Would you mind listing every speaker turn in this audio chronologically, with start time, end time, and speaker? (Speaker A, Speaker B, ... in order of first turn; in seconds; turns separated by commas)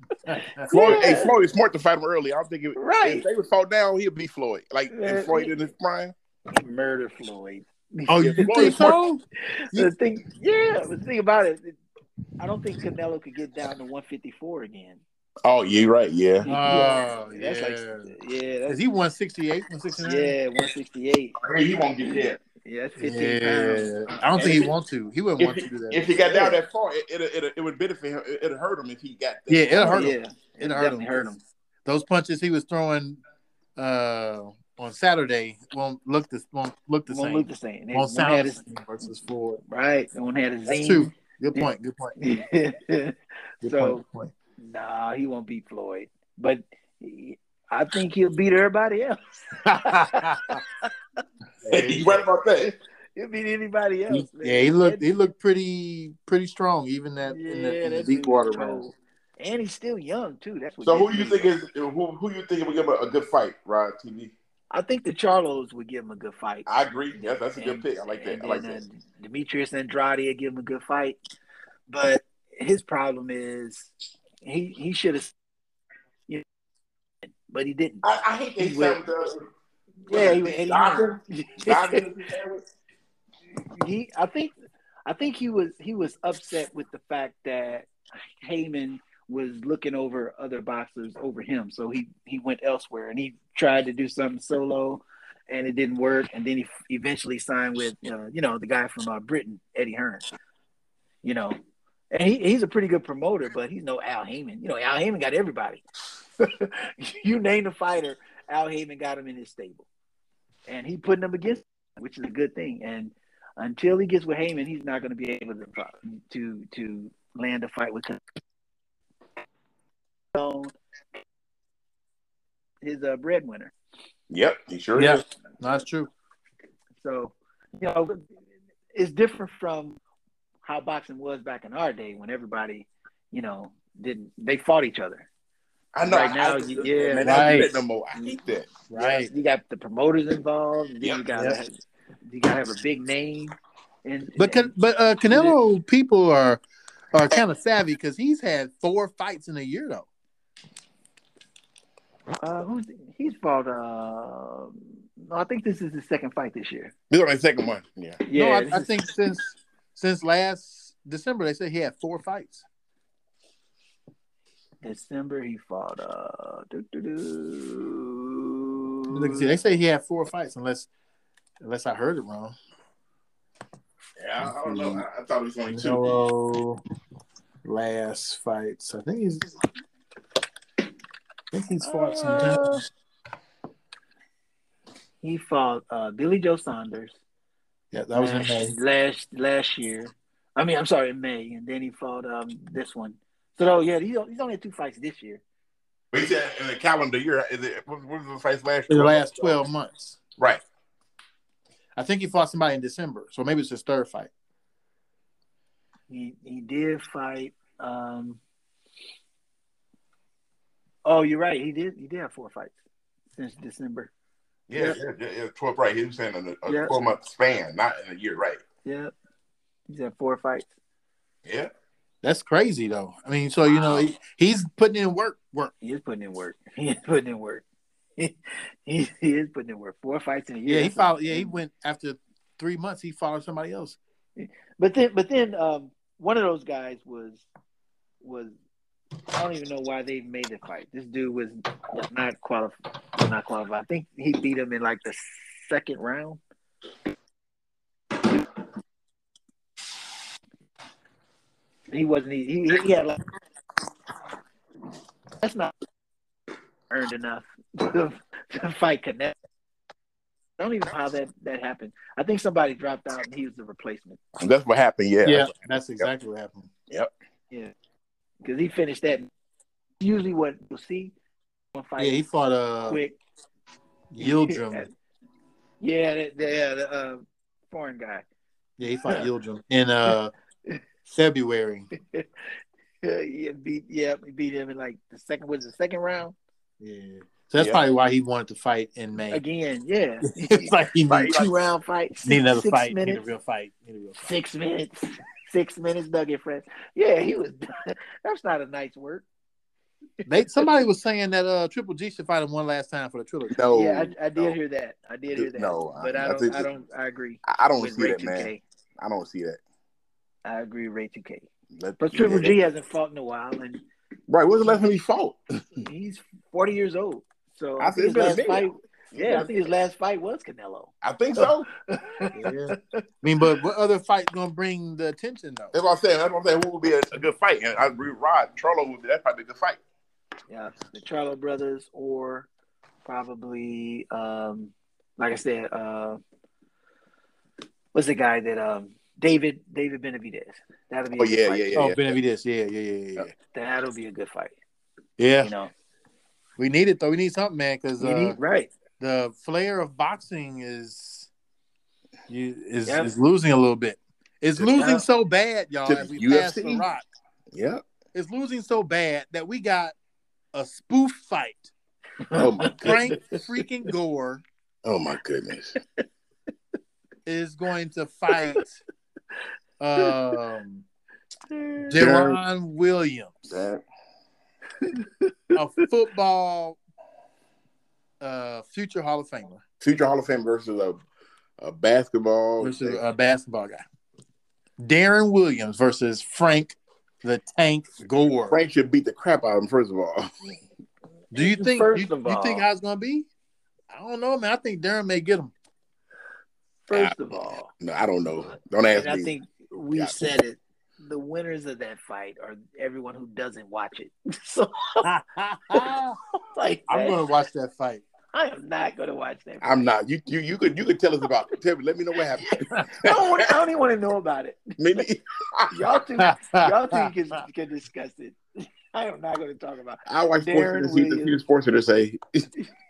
Speaker A: 0.2-1.0, Speaker B: 0.3-1.3, Speaker C: 0.7-6.1, Speaker B: 2.7-3.2, Speaker B: 4.9-5.5, Speaker B: 6.5-11.8, Speaker A: 8.1-9.2, Speaker C: 8.2-9.0, Speaker B: 12.4-15.0, Speaker C: 15.4-16.5, Speaker B: 16.4-18.8, Speaker A: 16.5-18.1, Speaker A: 18.7-20.4, Speaker B: 20.0-21.4, Speaker C: 21.4-22.4, Speaker B: 22.0-24.6, Speaker A: 23.0-26.1, Speaker C: 24.4-24.7, Speaker C: 25.4-30.1, Speaker B: 26.3-26.5, Speaker A: 29.5-33.2, Speaker B: 29.8-31.4, Speaker A: 33.8-39.6, Speaker B: 37.1-38.6, Speaker B: 39.6-44.0, Speaker A: 40.7-42.1, Speaker A: 43.6-44.3, Speaker B: 44.6-50.9, Speaker A: 49.7-50.6, Speaker A: 51.6-52.2, Speaker C: 51.7-52.7, Speaker B: 52.6-55.0, Speaker A: 54.1-58.9, Speaker B: 57.3-61.5, Speaker C: 60.8-64.3, Speaker B: 64.7-71.2, Speaker C: 66.7-68.8, Speaker B: 71.9-73.9, Speaker B: 74.4-75.3, Speaker B: 77.4-78.1, Speaker C: 78.0-79.5, Speaker B: 78.6-79.0, Speaker B: 80.0-82.1, Speaker C: 80.1-82.6, Speaker B: 83.7-84.5, Speaker B: 85.0-87.9, Speaker B: 88.4-100.2, Speaker B: 101.2-101.6, Speaker B: 102.1-105.8, Speaker B: 106.4-109.9, Speaker B: 110.7-118.2, Speaker B: 120.3-120.8, Speaker B: 122.8-123.7, Speaker C: 124.3-125.2, Speaker A: 125.0-126.1, Speaker B: 127.0-128.3, Speaker B: 128.9-130.0, Speaker B: 130.6-135.3, Speaker C: 135.9-138.9, Speaker B: 136.0-138.3, Speaker A: 137.2-137.8, Speaker A: 138.9-139.3, Speaker B: 139.0-144.7, Speaker C: 141.0-141.3, Speaker A: 144.4-146.6, Speaker B: 145.3-145.6, Speaker A: 147.1-150.1, Speaker B: 152.4-156.9, Speaker C: 157.1-158.2, Speaker B: 158.2-158.9, Speaker A: 158.3-162.6, Speaker B: 164.8-169.5, Speaker A: 169.1-170.9, Speaker A: 171.6-172.6, Speaker C: 174.2-176.2, Speaker A: 174.4-175.0, Speaker A: 175.7-176.8, Speaker A: 177.6-179.6, Speaker A: 181.5-182.8, Speaker B: 181.8-182.8, Speaker B: 185.2-187.2, Speaker A: 187.9-188.8, Speaker B: 188.1-195.4, Speaker C: 196.1-199.6, Speaker A: 198.9-200.2, Speaker A: 202.0-204.3, Speaker B: 206.1-208.4, Speaker B: 211.1-212.8, Speaker B: 213.3-214.1, Speaker C: 214.7-218.6, Speaker B: 214.7-215.0, Speaker B: 216.7-216.9, Speaker B: 218.8-219.1, Speaker B: 219.9-220.7, Speaker C: 221.4-221.7, Speaker A: 222.2-225.7, Speaker B: 225.8-227.6, Speaker B: 228.2-231.5, Speaker A: 230.7-234.0, Speaker B: 234.4-237.4, Speaker B: 238.2-238.5, Speaker B: 239.3-246.4, Speaker B: 251.9-253.2, Speaker B: 255.4-255.7, Speaker B: 256.9-259.3, Speaker B: 260.6-264.2, Speaker C: 264.4-266.1, Speaker A: 265.2-266.7, Speaker B: 268.4-269.3, Speaker B: 270.0-271.1, Speaker B: 271.7-272.2, Speaker A: 272.0-273.0, Speaker B: 272.9-273.2, Speaker A: 274.1-274.9, Speaker B: 274.2-274.9, Speaker B: 275.8-278.2, Speaker A: 278.8-280.3, Speaker A: 281.1-281.9, Speaker B: 282.1-282.5, Speaker B: 283.0-286.4, Speaker A: 286.8-289.4, Speaker B: 289.3-293.2, Speaker A: 290.3-291.4, Speaker C: 291.1-291.5, Speaker A: 292.2-294.2, Speaker B: 294.2-299.2, Speaker A: 300.2-303.6, Speaker C: 303.5-304.6, Speaker B: 303.7-308.6, Speaker C: 305.3-306.7, Speaker C: 307.4-309.6, Speaker B: 310.4-311.5, Speaker C: 311.7-312.6, Speaker B: 312.0-313.8, Speaker C: 314.3-315.8, Speaker B: 315.8-323.0, Speaker C: 317.8-319.5, Speaker C: 321.0-321.7, Speaker A: 322.3-325.7, Speaker C: 325.7-329.8, Speaker B: 330.5-332.5, Speaker B: 333.0-336.2, Speaker B: 337.9-341.8, Speaker C: 341.2-342.1, Speaker A: 341.7-343.3, Speaker B: 343.5-344.5, Speaker A: 345.2-345.5, Speaker B: 345.4-345.7, Speaker A: 346.6-348.4, Speaker B: 348.0-348.7, Speaker A: 349.0-351.3, Speaker A: 352.3-357.0, Speaker B: 352.9-353.1, Speaker B: 354.7-355.0, Speaker C: 355.9-356.9, Speaker C: 357.5-357.8, Speaker A: 358.1-359.9, Speaker A: 360.5-361.7, Speaker B: 362.2-363.4, Speaker C: 362.3-363.0, Speaker A: 362.7-364.4, Speaker C: 364.8-365.8, Speaker A: 367.2-368.8, Speaker A: 369.8-370.8, Speaker B: 371.5-372.1, Speaker A: 371.9-373.6, Speaker C: 372.0-372.4, Speaker C: 373.5-373.8, Speaker B: 374.8-375.6, Speaker A: 375.5-376.8, Speaker A: 378.2-379.6, Speaker C: 379.8-381.0, Speaker C: 381.6-383.0, Speaker A: 382.6-383.8, Speaker A: 384.8-388.6, Speaker C: 388.5-390.6, Speaker A: 391.3-393.3, Speaker B: 391.3-392.6, Speaker A: 393.9-395.5, Speaker B: 396.9-397.7, Speaker C: 397.8-399.3, Speaker B: 398.9-405.1, Speaker A: 405.0-406.2, Speaker B: 405.7-407.2, Speaker A: 406.9-408.0, Speaker B: 408.3-409.8, Speaker C: 409.6-413.2, Speaker B: 412.5-414.8, Speaker C: 414.8-415.7, Speaker B: 415.7-421.4, Speaker A: 416.2-417.1, Speaker C: 420.1-422.5